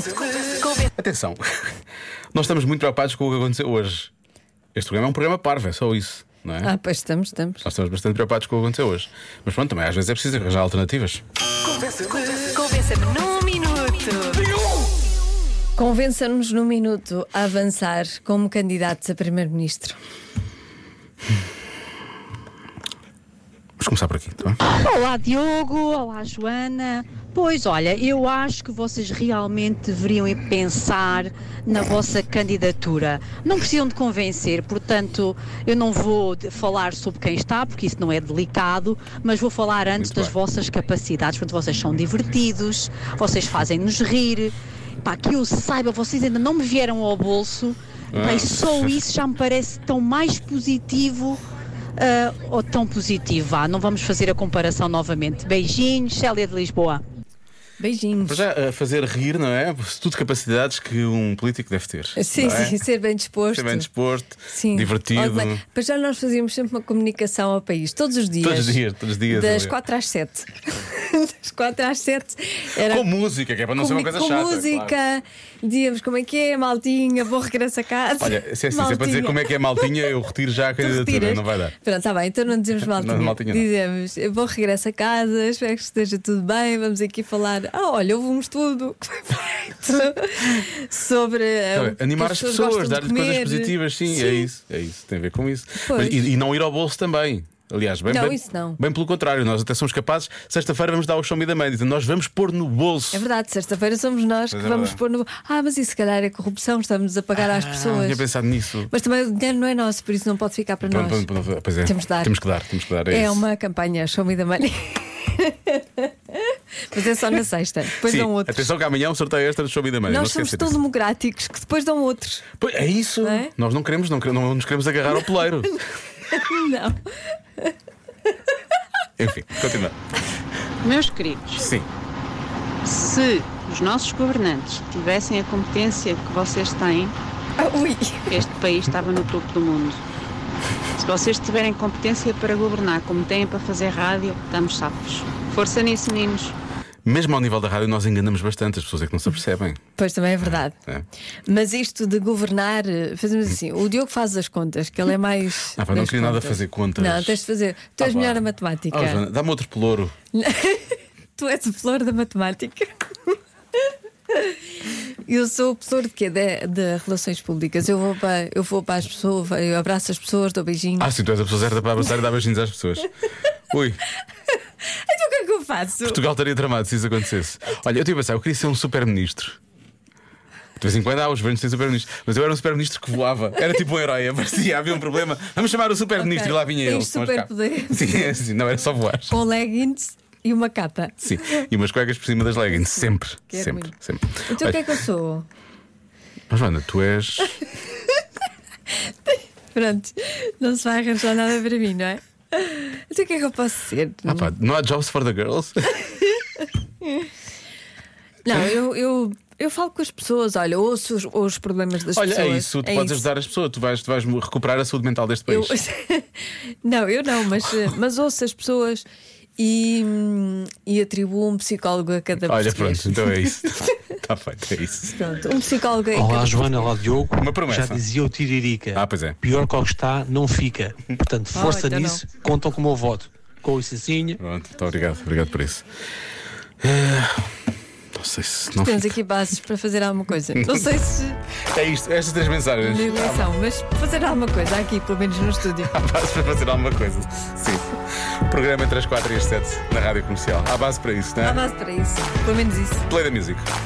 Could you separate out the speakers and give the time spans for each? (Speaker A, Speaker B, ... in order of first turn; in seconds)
Speaker A: 0.9-1.4, 2.3-4.1, 4.8-6.7, 7.6-11.2, 23.8-24.6, 40.0-40.4, 48.1-49.0, 58.2-62.8, 63.5-65.6, 68.4-69.8, 72.8-75.0, 78.2-81.7, 82.8-83.7, 91.7-103.2, 104.5-105.0, 107.8-108.9, 110.9-113.5, 118.0-120.8, 122.6-125.8, 129.2-129.9, 131.6-131.9, 147.1-149.8, 150.4-151.1, 155.8-157.4, 158.0-160.1, 171.0-173.1, 173.7-174.0, 176.0-179.6, 180.8-189.4, 191.2-194.9, 196.5-197.6, 204.3-205.8, 212.1-215.8, 222.5-225.2, 227.4-228.0, 228.9-229.4, 234.4-235.8, 236.8-237.5, 238.2-239.2, 240.6-241.0, 241.7-243.5, 245.9-247.9, 248.4-251.6, 253.1-253.7
Speaker B: 6.6-7.7, 12.4-14.5, 15.8-20.0, 57.8-58.4, 62.2-63.9, 64.5-73.1, 73.8-80.1, 80.8-94.5, 95.8-96.3, 98.1-98.8, 103.1-108.3, 108.9-111.2, 111.8-112.3, 113.1-118.7, 120.1-122.5, 123.2-123.5, 126.3-127.0, 137.6-138.3, 150.0-150.8, 151.5-159.2, 160.3-162.9, 164.3-164.6, 165.2-171.1, 174.9-176.2, 186.2-188.3, 189.3-191.6, 192.8-195.5, 199.3-204.5, 208.4-213.3, 215.5-219.1, 219.6-223.5, 225.1-226.9, 231.5-232.2, 238.8-241.4, 242.8-245.9, 251.4-253.1
Speaker C: 24.7-51.4, 52.0-57.0, 130.9-131.5, 133.7-134.4, 136.3-136.7
Speaker D: 130.8-131.6, 132.8-137.2, 138.3-140.0, 141.0-146.5
Speaker E: 226.1-234.4